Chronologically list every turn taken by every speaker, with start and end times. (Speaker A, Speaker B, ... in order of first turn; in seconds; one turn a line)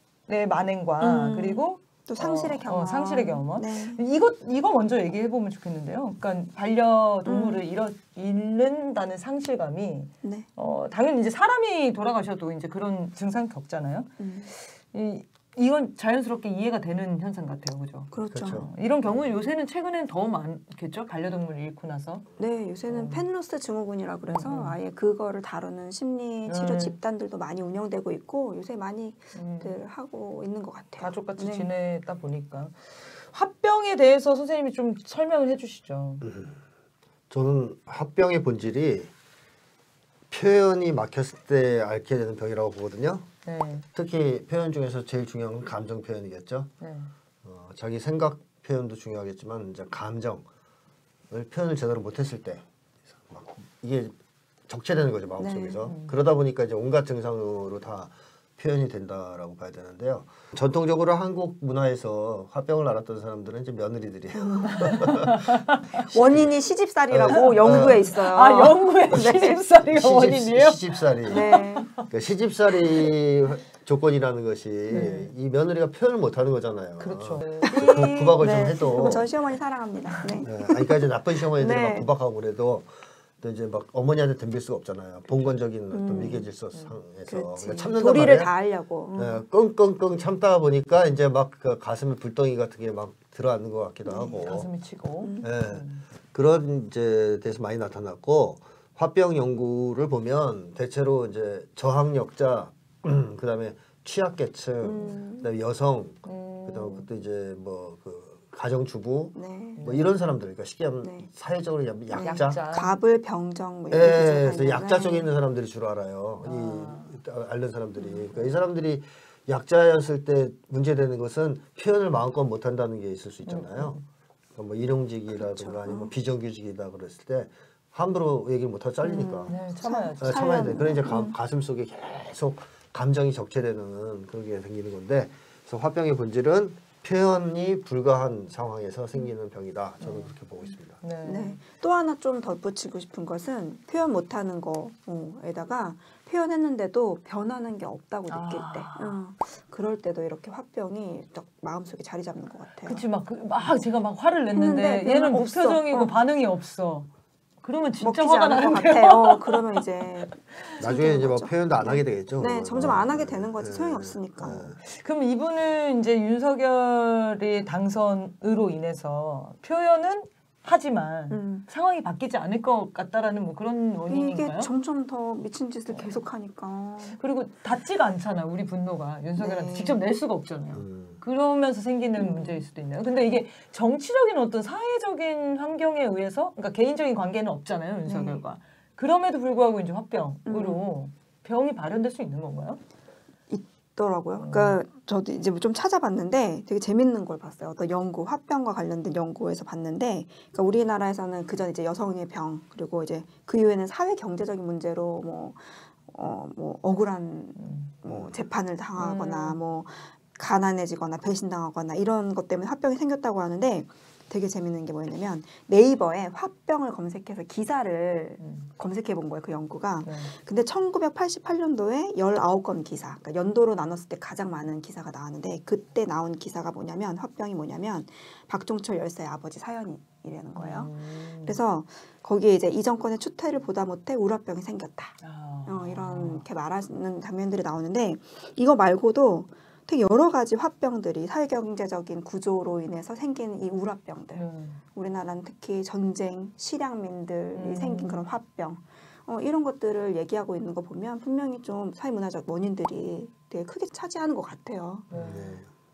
Speaker A: 0.3-22.2
Speaker B: 1.0-4.0
Speaker B: 7.3-7.6
Speaker B: 14.2-14.5
Speaker B: 18.1-18.7
Speaker C: 18.3-18.7
Speaker B: 22.4-31.7
Speaker A: 22.9-23.2
Speaker A: 24.3-24.8
Speaker A: 26.5-26.9
Speaker A: 29.4-29.8
Speaker A: 31.0-36.2
Speaker C: 36.2-36.6
Speaker C: 37.3-39.1
Speaker C: 40.3-43.3
Speaker A: 43.5-43.9
Speaker C: 44.0-46.7
Speaker A: 46.8-47.1
Speaker C: 47.4-50.5
Speaker C: 51.3-54.1
Speaker C: 54.7-66.5
Speaker B: 55.4-55.8
Speaker A: 55.9-56.1
Speaker B: 64.4-65.0
Speaker A: 64.7-66.0
Speaker B: 66.1-69.6
Speaker C: 67.1-68.1
Speaker A: 67.3-72.1
Speaker C: 69.9-71.5
Speaker B: 71.3-71.9
Speaker C: 72.1-79.3
Speaker A: 74.9-75.3
Speaker A: 77.0-79.3
Speaker B: 77.7-81.0
Speaker A: 80.1-80.4
Speaker C: 80.4-88.5
Speaker B: 81.6-82.1
Speaker B: 85.9-86.5
Speaker B: 87.3-89.4
Speaker C: 89.2-94.7
Speaker B: 94.1-94.4
Speaker A: 94.3-96.0
Speaker B: 95.2-95.5
Speaker C: 95.4-112.6
Speaker B: 104.8-105.5
Speaker A: 106.2-107.1
Speaker B: 109.3-109.8
Speaker A: 109.8-110.1
Speaker B: 111.0-111.3
Speaker B: 112.1-115.3
Speaker A: 112.2-113.0
Speaker C: 113.9-124.0
Speaker A: 116.4-117.1
Speaker A: 123.5-124.0
Speaker C: 124.6-129.6
Speaker B: 125.4-126.1
Speaker B: 129.0-131.3
Speaker A: 129.5-130.8
Speaker C: 130.2-141.0
Speaker A: 140.0-140.3
Speaker A: 141.0-141.6
Speaker B: 141.2-153.0
Speaker A: 148.3-149.2
Speaker A: 152.9-157.1
Speaker B: 154.6-156.1
Speaker A: 157.6-160.8
Speaker B: 158.0-164.7
Speaker C: 160.8-164.8
Speaker A: 164.8-174.7
Speaker B: 171.3-171.7
Speaker B: 174.1-177.2
Speaker A: 177.2-192.8
Speaker B: 179.4-180.0
Speaker C: 180.8-181.2
Speaker B: 182.2-182.6
Speaker B: 188.1-188.4
Speaker B: 190.5-190.8
Speaker B: 193.5-255.1
Speaker A: 194.4-194.8
Speaker A: 207.6-207.9
Speaker C: 208.1-208.3
Speaker A: 209.0-209.6
Speaker A: 218.4-218.7
Speaker A: 220.1-220.3
Speaker A: 230.6-231.6
Speaker A: 235.2-236.4
Speaker A: 244.3-244.8
Speaker A: 247.5-248.2
Speaker A: 255.1-255.6
Speaker C: 255.1-255.7